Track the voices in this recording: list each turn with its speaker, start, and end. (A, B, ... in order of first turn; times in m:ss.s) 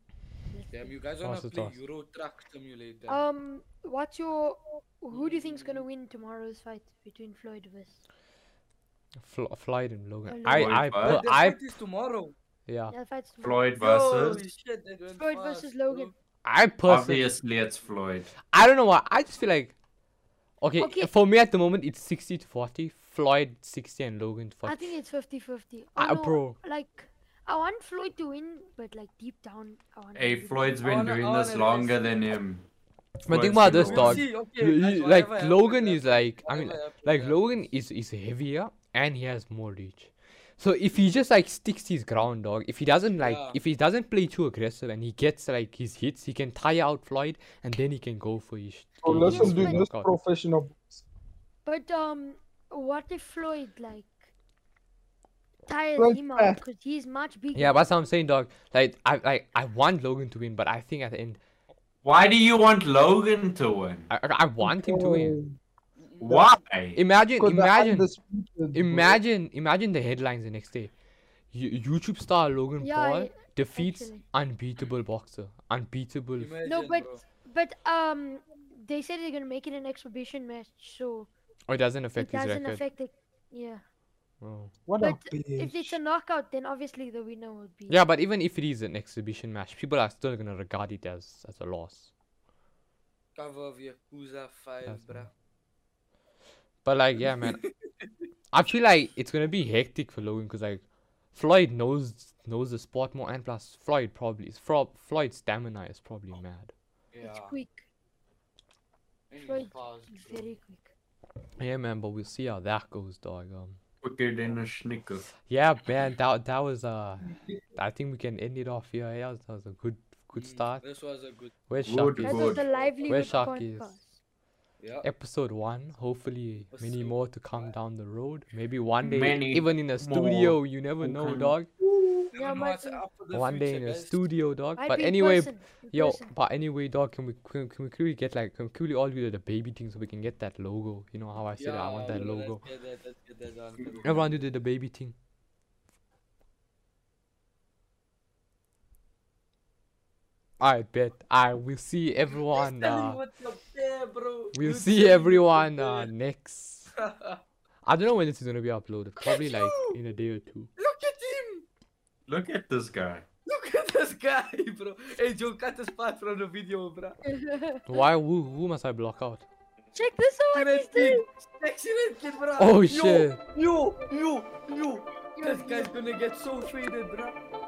0:00.5-0:00.9 A
0:00.7-0:03.2 B
0:01.2-0:01.8 C
0:03.1-0:08.0 A
0:05.1-0:05.8 B
0:09.2-0:11.6 C
0:10.3-0:10.8 A
0:10.5-0:11.2 D
0:11.0-0:12.3 B
0:12.7-0:12.9 C
0:12.9-0:13.6 A
0:13.4-0:14.4 D
0:13.8-0:16.1 B
0:15.2-0:16.1 A
0:16.4-0:17.2 C
0:16.9-0:18.3 D
0:18.5-0:19.7 C
0:20.6-0:24.8 C
0:20.8-0:21.1 A
0:24.6-0:30.8 A
0:26.0-0:26.6 C
0:30.1-0:32.6 D
0:30.8-0:32.2 B
0:33.2-0:50.1 C
0:33.3-0:34.2 D
0:33.8-0:37.6 B
0:43.2-0:43.6 B
0:49.0-0:51.0 E
0:49.1-0:49.8 A
0:51.6-0:54.3 A
0:55.7-0:57.9 A
0:56.0-0:56.6 E
0:57.5-1:01.4 C
1:02.0-1:04.1 D
1:04.1-1:05.4 C
1:04.6-1:05.6 E
1:06.0-1:06.3 B
1:06.2-1:07.0 D
1:06.2-1:06.5 E
1:06.9-1:08.1 C
1:07.4-1:09.2 E
1:08.7-1:10.9 C
1:11.5-1:16.6 C
1:12.8-1:14.2 A
1:16.4-1:17.2 B
1:16.6-1:21.3 A
1:21.7-1:22.8 C
1:22.2-1:23.8 A
1:24.4-1:24.7 C
1:24.8-1:26.0 E
1:25.0-1:28.0 A
1:27.9-1:32.1 C
1:33.3-1:35.3 B
1:34.8-1:35.3 C
1:36.8-1:37.6 C
1:37.2-1:38.1 B
1:38.5-1:46.7 C
1:47.1-1:47.6 B
1:47.2-1:47.8 A
1:49.3-1:50.5 B
1:49.4-1:50.9 A
1:51.6-1:53.8 C
1:54.0-1:55.3 D
1:55.4-2:00.8 C
2:00.4-2:01.5 B
2:01.7-2:04.0 C
2:01.8-2:02.6 D
2:02.2-2:04.2 A
2:02.5-2:03.4 B
2:04.8-2:05.1 B
2:05.0-2:11.7 C
2:06.7-2:07.7 B
2:09.0-2:11.5 D
2:12.3-2:14.2 B
2:12.3-2:13.0 A
2:13.3-2:22.6 C
2:14.8-2:16.3 A
2:21.6-2:24.4 B
2:24.0-2:25.1 C
2:30.6-2:33.2 C
2:32.5-2:36.1 B
2:34.5-2:36.9 C
2:37.0-2:37.4 B
2:37.8-2:40.7 C
2:39.2-2:40.0 B
2:40.8-2:41.6 B
2:42.3-2:43.2 D
2:43.4-2:47.2 B
2:47.2-2:48.0 A
2:47.8-2:49.4 C
2:49.9-2:51.2 A
2:50.5-2:57.4 B
2:52.6-2:53.4 C
2:55.4-2:55.9 A